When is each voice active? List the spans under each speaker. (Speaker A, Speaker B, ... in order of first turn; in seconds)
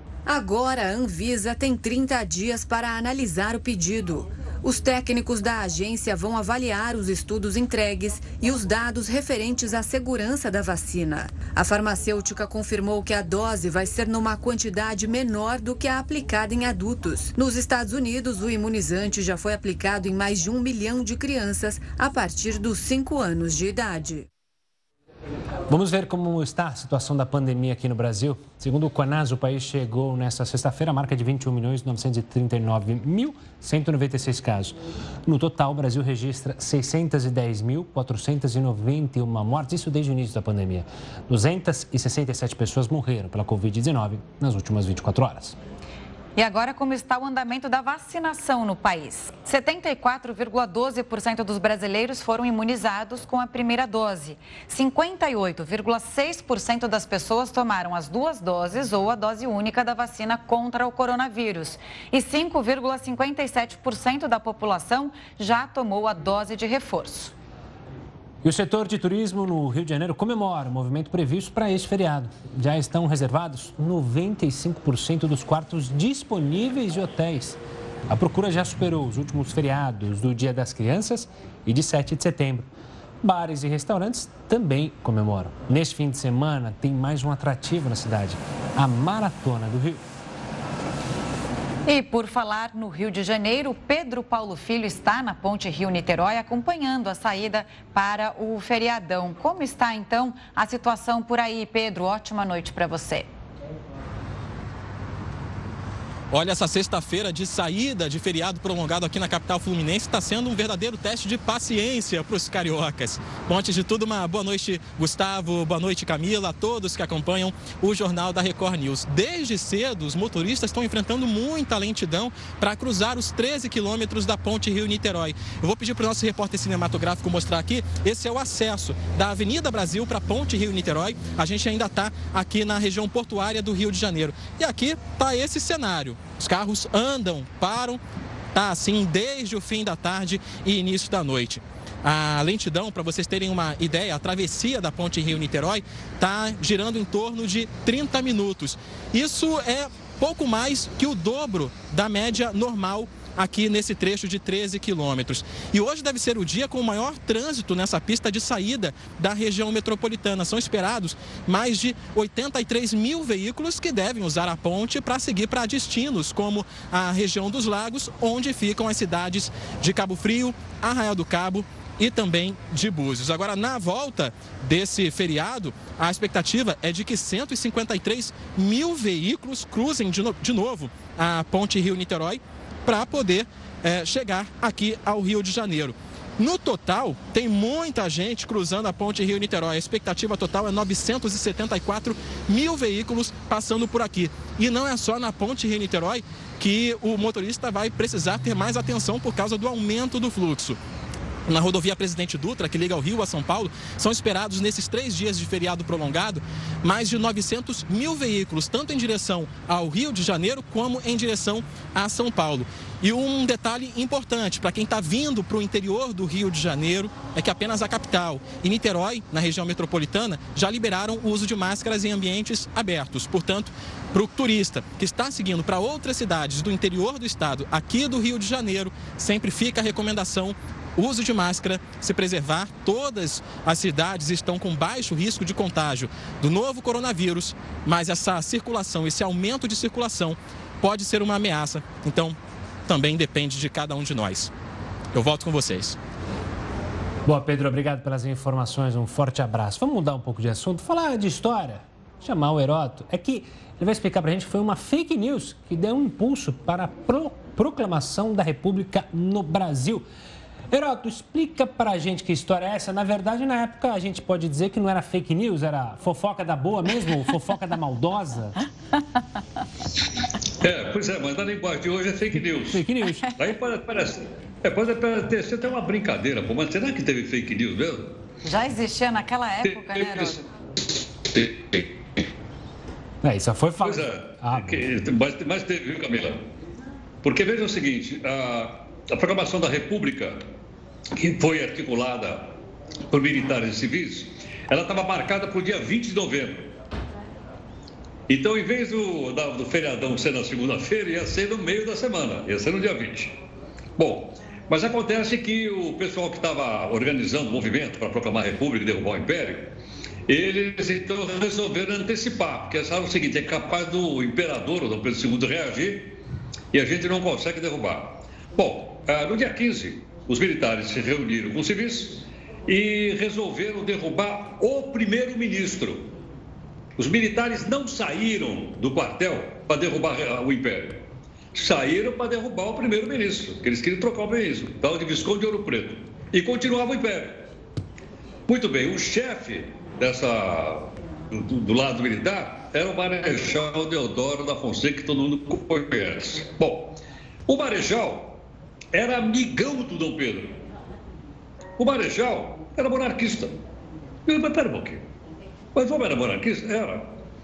Speaker A: 0.3-24.2
Speaker B: 25.7-45.6, 68.4-82.7, 83.2-90.0, 247.2-260.1, 260.7-268.6, 272.4-273.3, 283.2-284.9
Speaker C: 46.4-67.3, 91.8-103.3, 278.4-280.4
Speaker D: 106.3-138.0, 138.5-200.8, 201.5-244.5, 245.1-246.0
Speaker E: 270.6-278.1, 279.6-280.4, 281.3-281.9, 283.8-286.4, 287.2-290.4, 291.1-292.5, 293.1-296.7, 298.3-303.4, 304.0-309.7, 310.3-316.2, 316.7-326.1, 327.0-337.4, 338.5-348.4, 348.9-350.6, 351.8-353.6, 354.2-355.0, 355.7-357.1